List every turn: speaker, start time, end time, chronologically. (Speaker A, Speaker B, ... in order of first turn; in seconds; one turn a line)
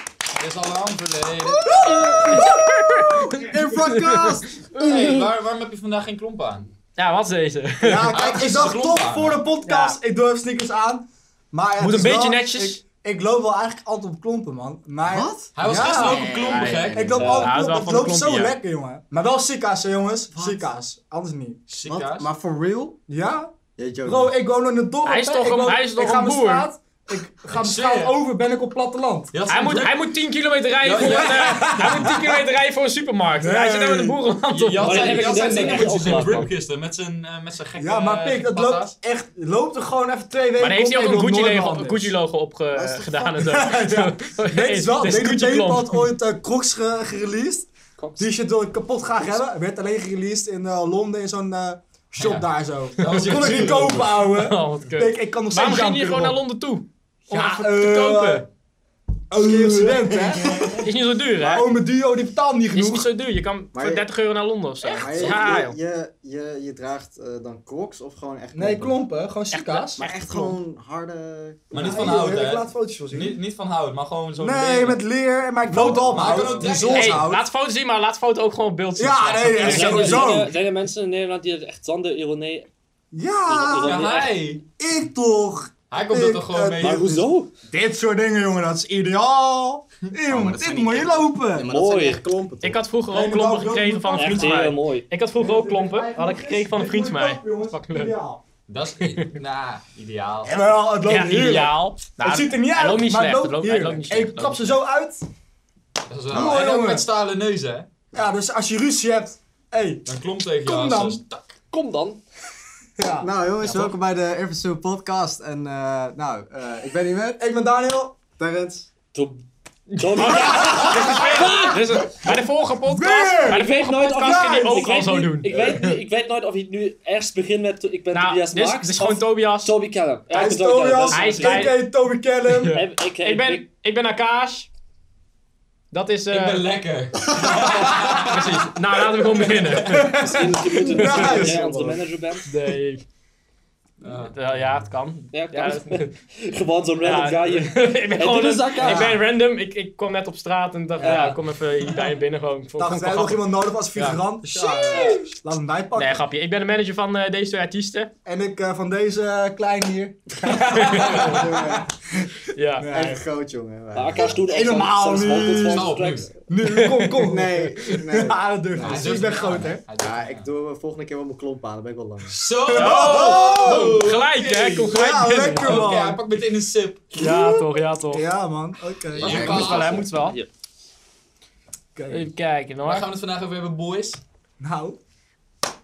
Speaker A: 0.4-2.5
Speaker B: 1.4-4.7
Speaker C: 2.2-5.2
Speaker A: 4.8-6.7
Speaker C: 7.0-8.2
Speaker D: 7.8-16.3
Speaker A: 8.1-9.4
Speaker C: 9.6-10.0
Speaker C: 11.8-12.8
Speaker B: 15.1-17.5
Speaker A: 15.6-17.2
Speaker C: 16.0-18.6
Speaker D: 16.9-21.6
Speaker E: 17.2-17.5
Speaker B: 20.3-20.6
Speaker A: 21.7-22.3
Speaker B: 21.8-23.0
Speaker D: 23.1-23.5
Speaker B: 23.8-24.3
Speaker D: 24.0-29.3
Speaker C: 25.0-26.7
Speaker A: 27.5-28.1
Speaker A: 29.3-29.9
Speaker C: 29.5-36.2
Speaker A: 30.8-32.0
Speaker D: 31.0-32.4
Speaker D: 33.3-34.1
Speaker A: 34.5-38.9
Speaker E: 34.8-36.5
Speaker D: 37.8-42.1
Speaker C: 40.6-46.1
Speaker B: 42.7-43.3
Speaker D: 43.1-56.4
Speaker E: 48.0-48.3
Speaker A: 52.2-54.0
Speaker C: 53.5-58.5
Speaker D: 57.3-58.5
Speaker D: 59.3-60.7
Speaker B: 59.6-60.8
Speaker A: 60.4-60.8
Speaker C: 60.8-61.8
Speaker D: 61.4-63.1
Speaker C: 62.7-65.8
Speaker B: 63.7-64.1
Speaker B: 64.9-69.0
Speaker D: 68.5-70.0
Speaker C: 69.5-70.5
Speaker B: 70.0-72.0
Speaker A: 71.7-75.0
Speaker D: 71.7-73.4
Speaker D: 74.4-77.4
Speaker A: 75.7-77.2
Speaker B: 75.9-76.7
Speaker C: 76.8-80.3
Speaker D: 79.0-80.5
Speaker E: 79.6-82.7
Speaker D: 83.1-84.1
Speaker E: 83.5-84.4
Speaker A: 83.8-84.6
Speaker D: 84.8-91.7
Speaker A: 85.9-87.2
Speaker E: 86.8-87.5
Speaker B: 90.2-92.8
Speaker E: 91.6-92.2
Speaker C: 92.6-98.1
Speaker D: 93.1-94.6
Speaker E: 94.1-95.1
Speaker D: 95.3-98.4
Speaker A: 98.7-100.6
Speaker C: 99.0-99.3
Speaker D: 100.4-105.3
Speaker C: 101.0-104.8
Speaker A: 106.1-107.9
Speaker D: 106.3-107.0
Speaker D: 108.1-110.0
Speaker A: 110.0-111.5
Speaker D: 110.6-111.2
Speaker E: 111.7-112.2
Speaker D: 113.0-113.3
Speaker B: 113.2-117.4
Speaker D: 117.4-118.2
Speaker B: 118.4-118.9
Speaker E: 119.1-121.9
Speaker A: 120.1-120.8
Speaker C: 120.2-125.5
Speaker D: 120.4-121.5
Speaker D: 122.8-124.9
Speaker E: 123.5-131.7
Speaker B: 125.5-125.9
Speaker C: 128.1-129.7
Speaker D: 130.3-132.7
Speaker C: 131.1-131.9
Speaker C: 132.5-134.7
Speaker E: 132.7-133.7
Speaker C: 135.9-136.7
Speaker A: 136.3-140.1
Speaker C: 137.4-141.6
Speaker D: 139.8-142.0
Speaker E: 140.2-142.5
Speaker B: 140.5-141.9
Speaker C: 142.4-143.1
Speaker A: 144.0-144.3
Speaker C: 144.0-146.1
Speaker E: 145.3-149.2
Speaker C: 147.0-153.4
Speaker D: 148.6-149.2
Speaker E: 151.0-151.4
Speaker D: 151.0-151.3
Speaker D: 152.8-156.2
Speaker C: 153.9-155.2
Speaker E: 154.9-155.3
Speaker C: 155.9-158.1
Speaker D: 158.2-163.2
Speaker C: 160.5-161.6
Speaker B: 160.9-161.9
Speaker C: 162.5-162.9
Speaker B: 162.9-165.8
Speaker E: 163.9-166.3
Speaker D: 164.3-165.9
Speaker A: 165.6-166.3
Speaker D: 166.5-169.8
Speaker C: 166.6-168.0
Speaker B: 167.2-172.4
Speaker A: 168.8-170.5
Speaker A: 172.3-174.9
Speaker D: 172.6-174.0
Speaker C: 172.7-175.9
Speaker D: 174.8-176.2
Speaker A: 175.6-177.2
Speaker C: 177.1-178.2
Speaker D: 177.2-179.5
Speaker A: 179.1-180.0
Speaker B: 179.2-179.7
Speaker C: 179.3-180.4
Speaker E: 179.3-180.5
Speaker D: 181.9-182.3
Speaker C: 182.1-183.1
Speaker A: 182.8-184.2
Speaker D: 184.6-185.0